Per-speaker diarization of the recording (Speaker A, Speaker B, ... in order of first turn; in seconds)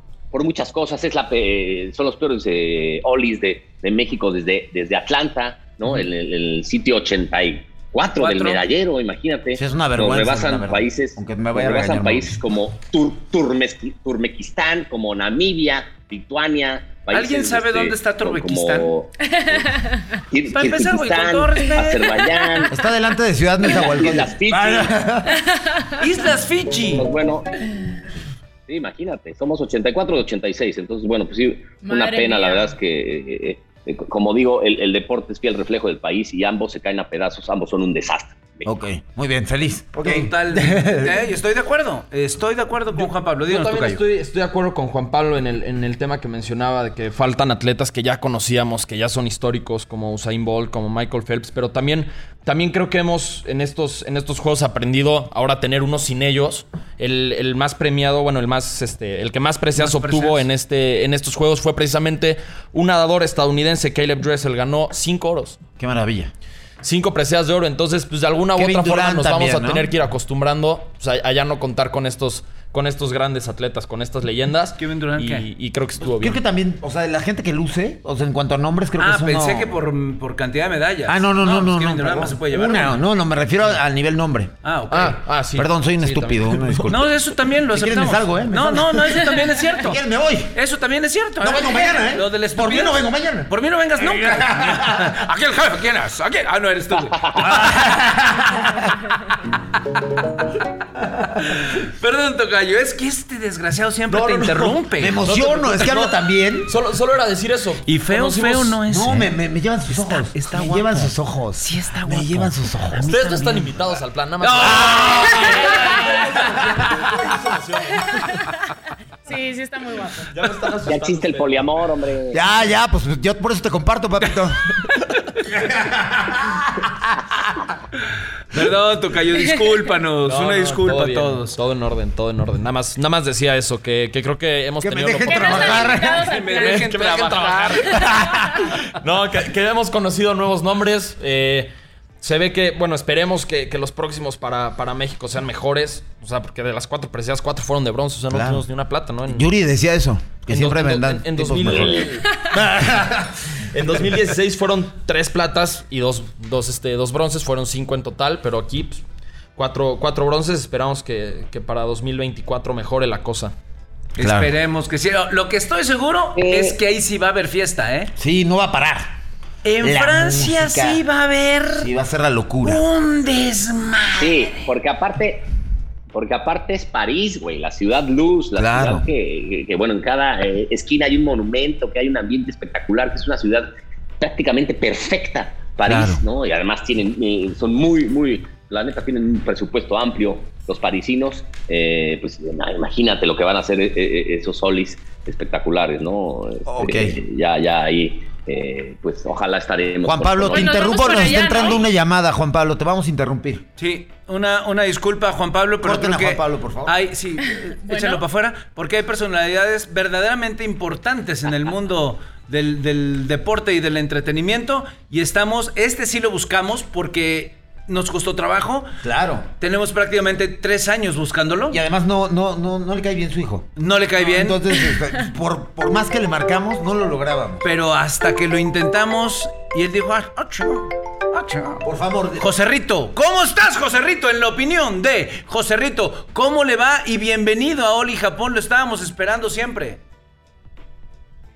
Speaker A: 0.3-19.7, 20.3-22.7, 23.6-24.9, 26.9-27.6, 28.7-38.7, 96.9-97.5, 120.9-122.4, 151.7-152.1, 166.4-166.8, 174.2-175.5, 176.1-183.7, 184.2-201.2
Speaker B: 8.2-8.6, 17.1-18.9, 20.5-22.4, 26.0-27.1, 40.0-44.0, 59.7-60.4, 74.8-75.5, 79.0-83.0, 84.6-85.2, 86.9-90.0, 90.5-97.6, 101.5-105.3, 107.9-109.4, 109.9-116.7, 128.5-131.6, 135.9-138.1, 164.2-168.1, 169.6-171.9, 172.6-174.7, 203.8-218.9, 219.6-221.8, 223.8-224.9, 227.6-231.8, 232.4-240.0
Speaker C: 9.5-12.4, 22.7-25.4, 38.6-41.3, 65.8-66.3, 68.5-69.9, 76.0-79.8, 81.1-84.5, 85.5-87.2, 87.7-90.5, 91.4-95.2, 97.4-99.0, 104.1-106.7, 108.9-113.2, 114.6-115.9, 122.3-124.6, 125.5-127.1, 134.8-136.3, 137.9-138.7, 148.3-148.7, 149.2-153.3, 164.2-164.5, 168.2-169.2, 169.8-171.0, 171.7-172.8, 178.6-179.1, 185.8-186.2, 196.7-197.2, 200.0-203.6, 205.8-207.0, 219.0-219.5, 221.7-227.7, 231.8-232.5
Speaker D: 19.2-20.2, 25.3-26.0, 31.8-32.7, 119.2-120.3, 135.2-136.9, 200.5-201.8, 207.7-208.2
Speaker E: 42.9-65.6, 66.8-76.4, 84.9-87.0, 105.2-106.1, 106.6-108.8, 113.0-118.4, 120.3-121.8, 130.2-135.9, 136.6-138.1, 138.8-149.5, 150.5-152.5, 153.7-159.0, 159.6-163.5